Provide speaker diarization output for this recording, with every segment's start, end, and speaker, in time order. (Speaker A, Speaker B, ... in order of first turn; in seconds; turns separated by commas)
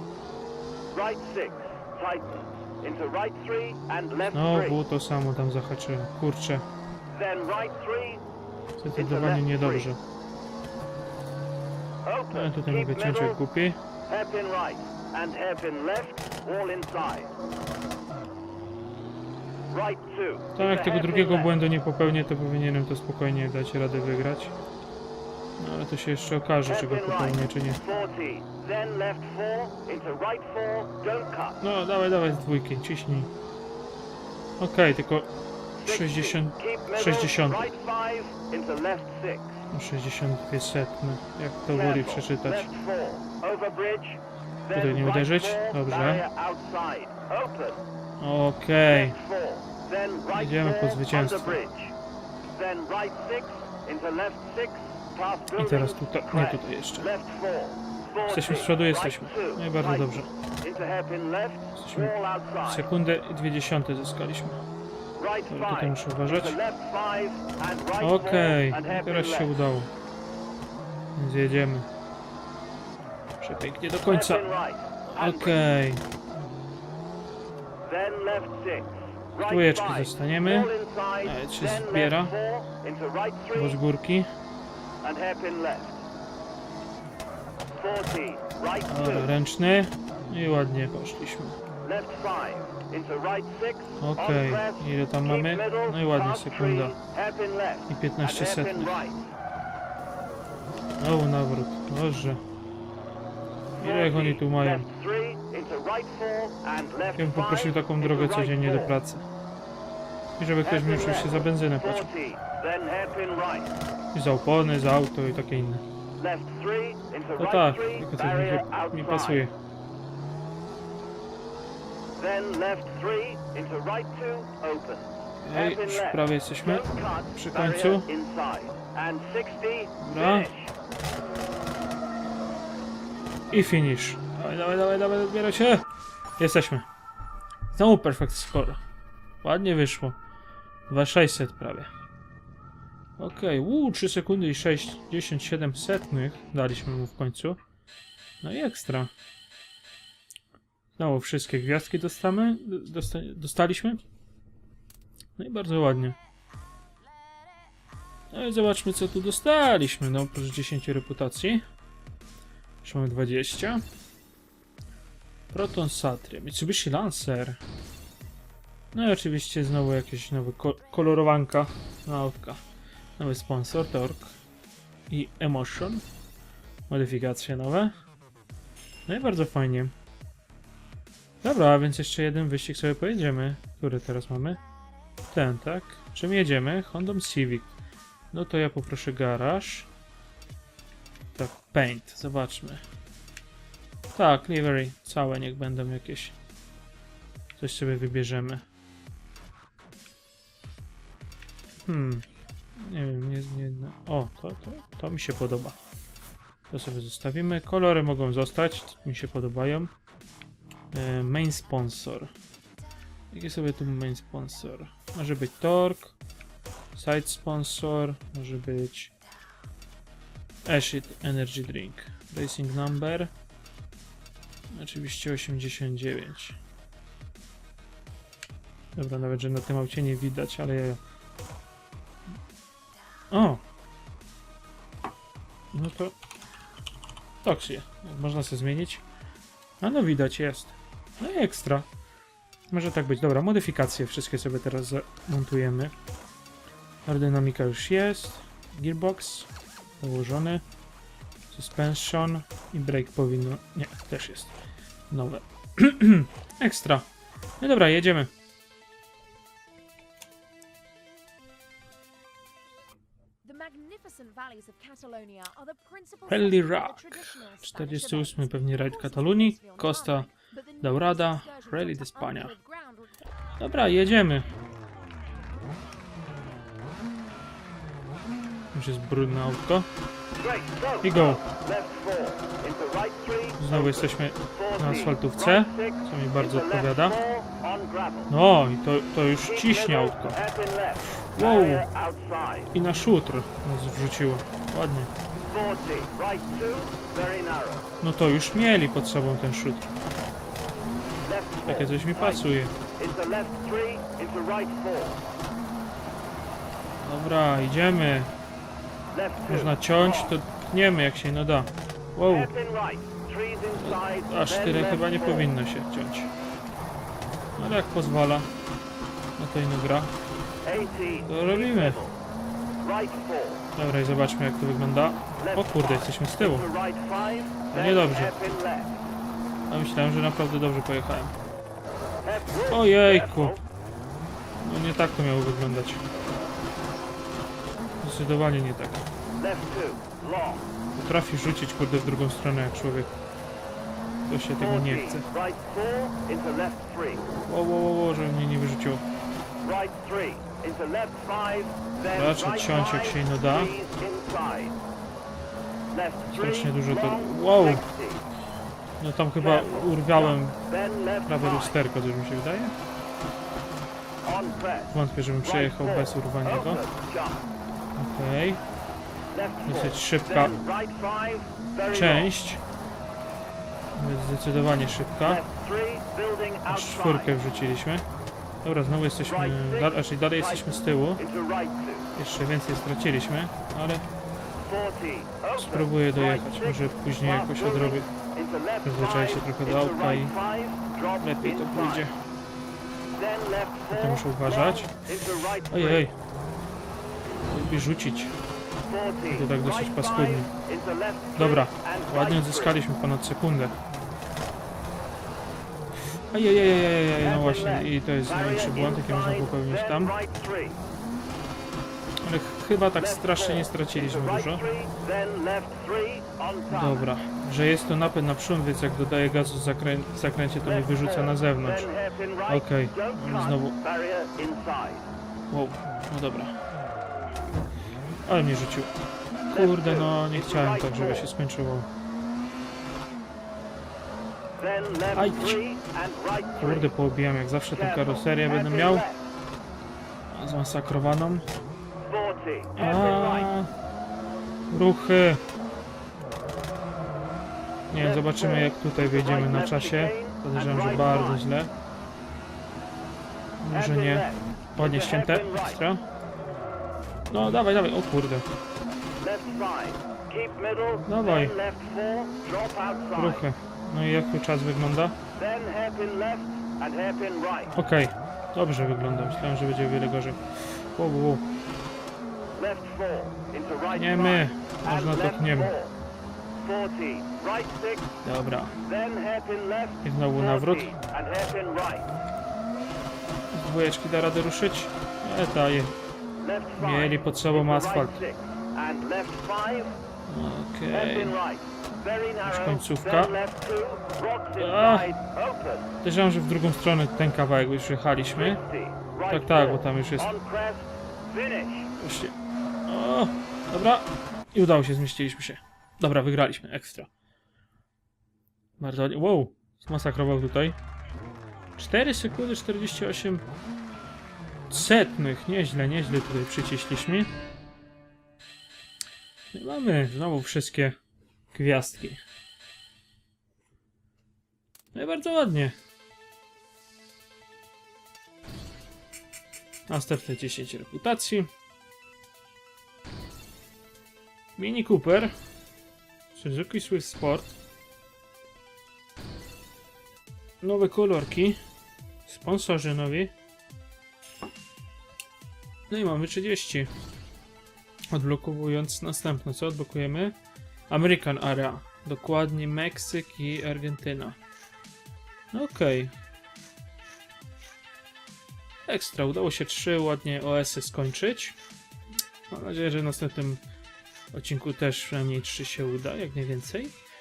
Speaker A: 0.9-4.8, Speaker B: 4.3-6.6, Speaker A: 7.1-8.2, Speaker B: 8.8-10.0, Speaker A: 8.9-9.9, Speaker A: 12.1-13.4, Speaker B: 12.3-13.8, Speaker A: 14.1-17.3, Speaker A: 19.7-21.5, Speaker B: 20.6-24.6, Speaker B: 25.6-27.8, Speaker A: 26.7-31.6, Speaker B: 31.6-33.3, Speaker B: 34.6-35.3, Speaker A: 35.8-39.7, Speaker B: 35.9-37.7, Speaker B: 39.7-42.7, Speaker A: 41.7-47.8, Speaker B: 44.7-46.3, Speaker B: 48.2-49.2, Speaker A: 48.9-51.9, Speaker B: 50.3-51.6, Speaker A: 52.5-62.9, Speaker B: 55.5-57.1, Speaker B: 58.3-60.3, Speaker B: 61.8-64.6, Speaker A: 65.2-69.5, Speaker B: 65.5-66.6, Speaker B: 68.0-69.9, Speaker B: 71.2-71.9, Speaker B: 73.4-74.5, Speaker A: 74.1-75.6, Speaker B: 75.2-76.0, Speaker A: 77.8-83.8, Speaker B: 79.4-82.4, Speaker B: 83.5-84.3, Speaker A: 85.0-86.0, Speaker A: 87.8-89.3, Speaker B: 88.9-91.6, Speaker A: 91.8-99.3, Speaker B: 94.0-97.0, Speaker B: 97.9-99.1, Speaker B: 101.0-102.4, Speaker B: 103.8-104.9, Speaker A: 103.8-109.0, Speaker B: 107.2-109.2, Speaker B: 110.4-112.1, Speaker A: 110.6-113.8, Speaker B: 114.1-115.8, Speaker A: 116.2-119.5, Speaker B: 117.4-119.5, Speaker A: 122.2-130.7, Speaker B: 125.4-128.1, Speaker B: 130.0-130.5, Speaker B: 133.5-135.9, Speaker B: 136.4-136.9, Speaker B: 137.7-138.8, Speaker B: 139.4-140.2, Speaker B: 140.9-141.9, Speaker B: 143.2-147.6, Speaker B: 148.4-149.1, Speaker B: 151.0-154.0, Speaker B: 155.4-156.2, Speaker B: 158.3-161.6, Speaker B: 162.8-163.8, Speaker B: 165.5-167.6, Speaker B: 168.9-172.6, Speaker B: 173.2-174.4, Speaker B: 175.1-176.1, Speaker B: 176.9-177.9, Speaker B: 179.1-179.9, Speaker B: 181.4-184.6, Speaker B: 185.3-187.7, Speaker B: 188.3-189.9, Speaker B: 191.3-192.8, Speaker B: 194.2-196.4, Speaker B: 197.6-198.6, Speaker B: 201.8-202.2, Speaker B: 202.8-205.8, Speaker B: 206.7-209.9, Speaker B: 210.9-212.3, Speaker B: 213.3-216.2, Speaker B: 216.9-219.1, Speaker B: 220.6-223.3, Speaker B: 224.7-226.6, Speaker B: 228.9-231.0, Speaker B: 233.3-233.6, Speaker B: 235.7-236.2, Speaker B: 237.4-239.0, Speaker B: 239.8-241.9, Speaker B: 242.7-245.9, Speaker B: 247.1-249.5, Speaker B: 250.0-250.6, Speaker B: 251.5-254.5, Speaker B: 255.1-257.1, Speaker B: 257.6-258.3, Speaker C: 263.4-273.3, Speaker B: 266.3-270.3, Speaker B: 270.8-272.5, Speaker B: 273.6-274.5, Speaker B: 278.7-279.9, Speaker A: 280.4-288.3, Speaker B: 281.0-281.4, Speaker B: 283.6-287.2, Speaker B: 288.3-290.4, Speaker A: 289.4-292.7, Speaker B: 291.2-291.9, Speaker B: 292.7-295.1, Speaker A: 295.5-297.9, Speaker B: 298.0-299.9, Speaker A: 301.3-305.2, Speaker B: 301.7-302.7, Speaker B: 307.0-308.3, Speaker A: 309.1-310.4, Speaker B: 309.4-312.5, Speaker A: 312.3-315.5, Speaker B: 313.7-316.3, Speaker B: 317.6-318.5, Speaker B: 319.4-320.1, Speaker A: 320.6-322.2, Speaker B: 321.3-322.0, Speaker A: 322.8-323.7, Speaker B: 323.8-326.7, Speaker A: 325.4-329.1, Speaker B: 327.7-328.3, Speaker B: 329.7-331.3, Speaker A: 332.2-333.6, Speaker B: 332.7-333.6, Speaker B: 334.6-336.0, Speaker B: 338.0-339.1, Speaker A: 339.4-340.7, Speaker B: 340.9-343.1, Speaker B: 344.3-345.3, Speaker A: 344.6-347.3, Speaker B: 347.4-349.1, Speaker A: 349.6-354.8, Speaker B: 352.1-353.7, Speaker A: 355.9-358.2, Speaker B: 356.3-357.9, Speaker B: 359.0-360.6, Speaker A: 359.4-361.8, Speaker B: 361.3-362.8, Speaker A: 364.2-367.4, Speaker B: 364.9-366.8, Speaker B: 368.0-368.6, Speaker A: 369.3-372.3, Speaker B: 369.7-370.6, Speaker B: 371.9-372.6, Speaker B: 373.9-375.4, Speaker A: 375.2-377.3, Speaker B: 376.7-378.1, Speaker B: 378.6-381.2, Speaker A: 379.3-382.1, Speaker B: 382.2-384.1, Speaker A: 384.6-392.1, Speaker B: 385.6-388.1, Speaker B: 388.8-390.4, Speaker B: 391.2-392.1, Speaker A: 393.2-396.1, Speaker B: 393.9-394.9, Speaker B: 395.7-396.1, Speaker B: 397.5-398.4, Speaker A: 398.9-402.8, Speaker B: 399.3-400.5, Speaker B: 401.4-403.8, Speaker B: 406.3-410.1, Speaker A: 407.2-410.8, Speaker B: 412.2-414.6, Speaker A: 413.0-417.1, Speaker B: 416.7-421.9, Speaker A: 420.6-425.1, Speaker B: 422.5-423.8, Speaker B: 425.5-426.6, Speaker B: 428.3-431.9, Speaker A: 429.5-431.3, Speaker A: 434.6-436.9, Speaker B: 435.1-435.6, Speaker B: 436.6-439.1, Speaker A: 437.7-439.3, Speaker B: 440.3-441.5, Speaker A: 442.0-443.5, Speaker B: 442.8-443.7, Speaker B: 444.7-445.4, Speaker B: 447.9-451.7, Speaker A: 448.0-451.4, Speaker B: 453.6-456.0, Speaker A: 453.7-455.8, Speaker B: 457.3-458.5, Speaker A: 459.2-463.4, Speaker B: 461.1-461.5, Speaker B: 463.1-465.2, Speaker A: 465.4-467.8, Speaker B: 467.8-471.5, Speaker A: 472.5-475.9, Speaker B: 473.9-475.8, Speaker A: 476.6-478.2, Speaker B: 478.2-478.8, Speaker A: 478.9-482.1, Speaker B: 480.0-480.9, Speaker B: 483.5-485.9, Speaker A: 486.4-489.9, Speaker B: 486.8-488.2, Speaker B: 490.3-491.4, Speaker A: 490.9-495.9, Speaker B: 492.4-493.3, Speaker B: 494.6-495.1, Speaker B: 496.0-498.6, Speaker A: 498.3-501.9, Speaker B: 499.3-500.3, Speaker B: 502.0-502.3, Speaker B: 502.9-507.1, Speaker B: 508.8-510.8, Speaker B: 511.8-513.5, Speaker B: 514.7-517.3, Speaker B: 519.5-521.0, Speaker B: 521.5-522.2, Speaker B: 524.9-525.8, Speaker B: 529.9-531.5, Speaker B: 534.6-535.3, Speaker B: 536.3-537.6, Speaker B: 540.6-541.6, Speaker B: 542.3-543.3, Speaker B: 545.9-546.9, Speaker B: 548.1-550.4, Speaker B: 550.9-554.4, Speaker B: 555.5-556.1, Speaker B: 558.9-561.6, Speaker B: 562.5-563.6, Speaker B: 564.3-566.9